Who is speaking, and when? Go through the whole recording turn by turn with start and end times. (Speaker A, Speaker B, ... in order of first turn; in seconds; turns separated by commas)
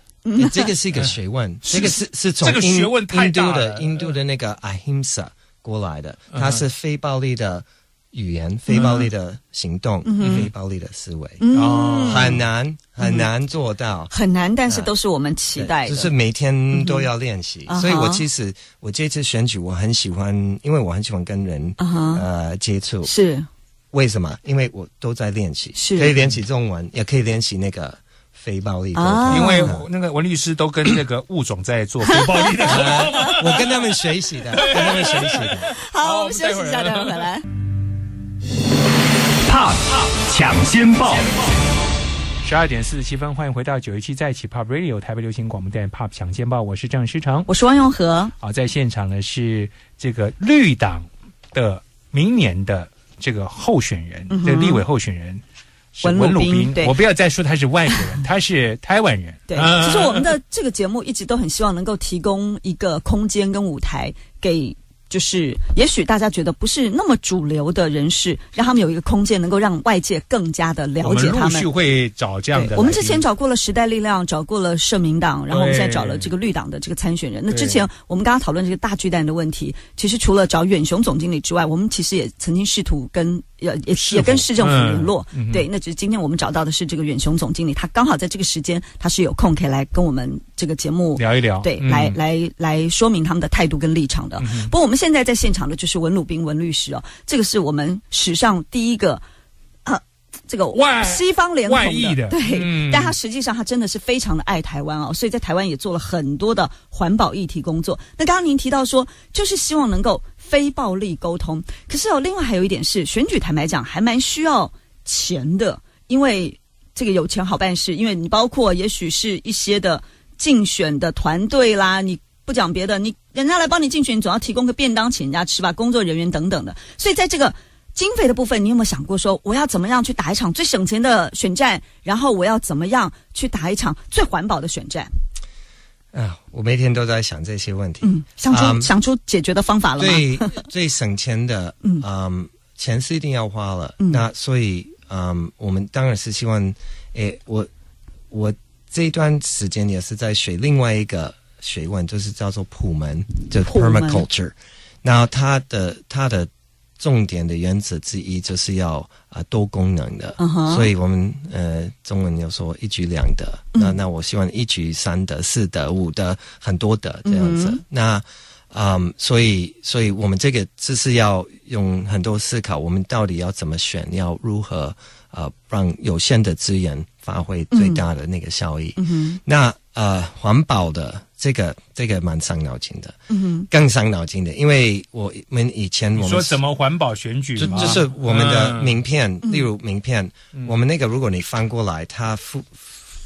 Speaker A: 0.2-0.7, Speaker B: 0.3-11.4, Speaker C: 0.9-4.2, Speaker C: 6.3-6.6, Speaker C: 8.7-9.1, Speaker A: 10.0-10.5, Speaker C: 10.2-10.5, Speaker A: 11.4-12.4, Speaker C: 11.5-12.4, Speaker B: 12.0-14.1, Speaker A: 13.0-13.3, Speaker A: 14.1-16.1, Speaker B: 15.6-23.1, Speaker A: 16.7-17.1, Speaker A: 17.7-18.2, Speaker A: 21.8-22.2, Speaker A: 23.0-23.5, Speaker B: 23.9-29.9, Speaker A: 25.8-26.1, Speaker A: 28.9-29.7, Speaker C: 29.3-33.9, Speaker A: 32.0-33.2, Speaker B: 32.6-35.7, Speaker C: 34.5-37.3, Speaker A: 35.6-37.4, Speaker C: 39.5-41.3, Speaker C: 42.4-47.5, Speaker A: 47.5-48.3, Speaker C: 48.4-55.4, Speaker A: 54.3-54.8, Speaker C: 56.0-60.3, Speaker A: 56.0-57.0, Speaker A: 59.5-71.7, Speaker C: 71.0-73.2, Speaker A: 72.5-99.2, Speaker C: 75.5-76.3, Speaker C: 77.5-77.8, Speaker C: 83.9-85.7, Speaker C: 91.2-92.2, Speaker C: 94.4-94.7, Speaker A: 99.8-135.1, Speaker C: 100.7-103.2, Speaker B: 136.1-138.9, Speaker A: 138.0-140.6, Speaker B: 140.0-147.7, Speaker B: 148.3-183.2, Speaker A: 153.6-154.3, Speaker A: 160.4-160.9, Speaker A: 167.2-167.8, Speaker A: 177.7-178.0, Speaker A: 178.9-179.4, Speaker A: 183.3-183.7, Speaker B: 183.7-186.6, Speaker C: 186.2-189.0, Speaker B: 187.6-192.9, Speaker A: 187.6-188.0, Speaker A: 189.4-189.7